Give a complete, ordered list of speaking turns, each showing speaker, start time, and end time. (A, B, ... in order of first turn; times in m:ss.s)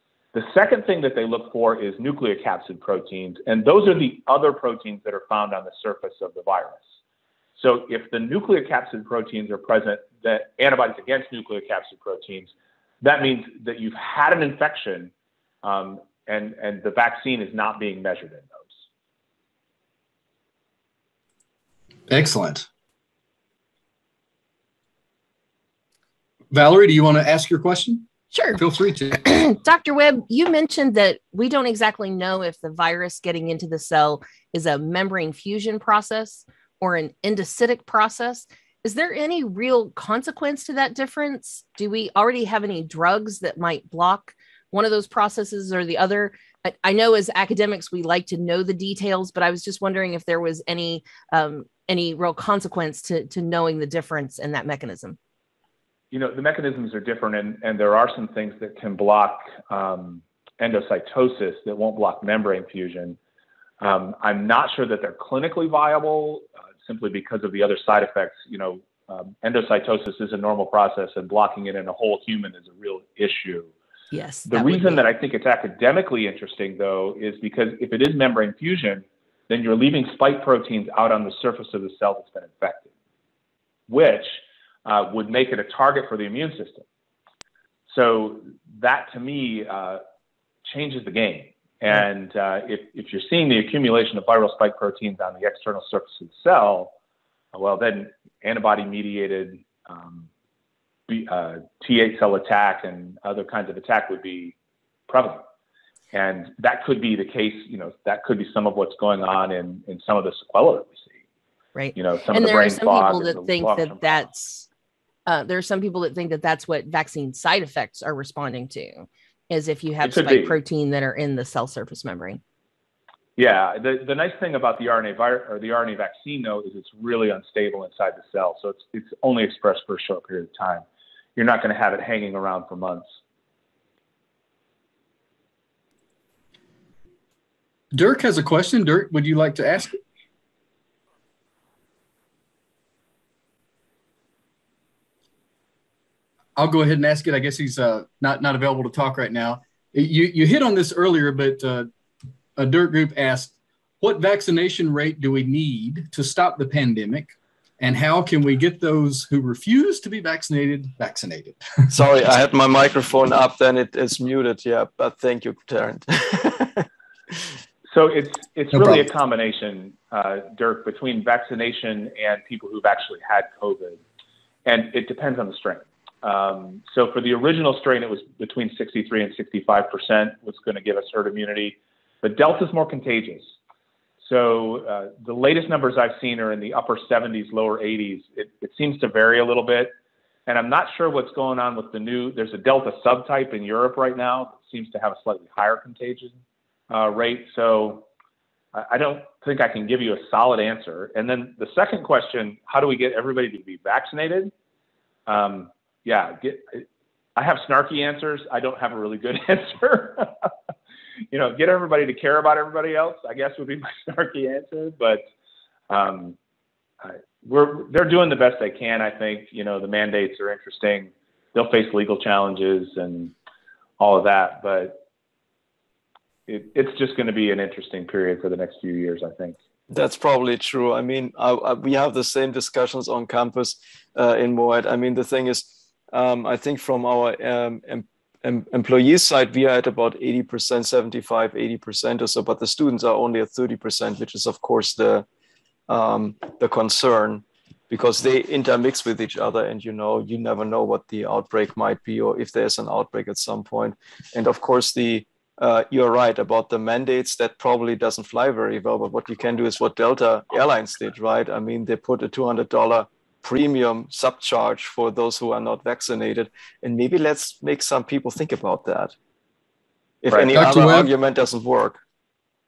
0:00.3-0:06.8 A
0:07.6-0:15.1 A
0:15.6-0:18.7 A
0:22.1-0:22.7 B
0:26.5-0:29.3 B
0:28.3-0:28.6 C
0:29.2-0:55.2 C
0:56.1-1:03.2 A
1:03.8-1:13.7 A
1:14.1-1:15.0 C
1:14.5-1:22.9 A
1:23.9-1:26.9 A
1:27.9-1:30.0 A
1:30.6-1:36.9 A
1:37.5-1:40.3 A
1:41.1-1:44.6 A
1:45.1-1:45.4 A
1:46.1-1:51.1 A
1:51.7-1:54.7 C
1:51.9-1:54.3 A
1:55.3-2:02.4 C
2:00.0-2:00.6 A
2:03.4-2:13.0 A
2:17.9-2:20.0 B
2:26.6-2:31.9 B
2:32.6-2:41.9 B
2:41.9-2:46.9 D
2:47.9-2:54.0 A
2:48.7-2:49.0 B
2:54.6-3:03.5 A
3:04.2-3:09.9 A
3:10.5-3:16.4 A
3:16.9-3:18.0 A
3:18.7-3:24.5 A
3:25.3-3:30.5 A
3:31.3-3:35.2 A
3:35.9-3:36.4 A
3:37.0-3:43.3 A
3:44.0-3:45.0 A
3:46.5-3:49.6 A
3:49.9-4:05.3 D
4:05.9-4:29.1 D
4:30.2-4:32.0 D
4:30.3-4:31.1 B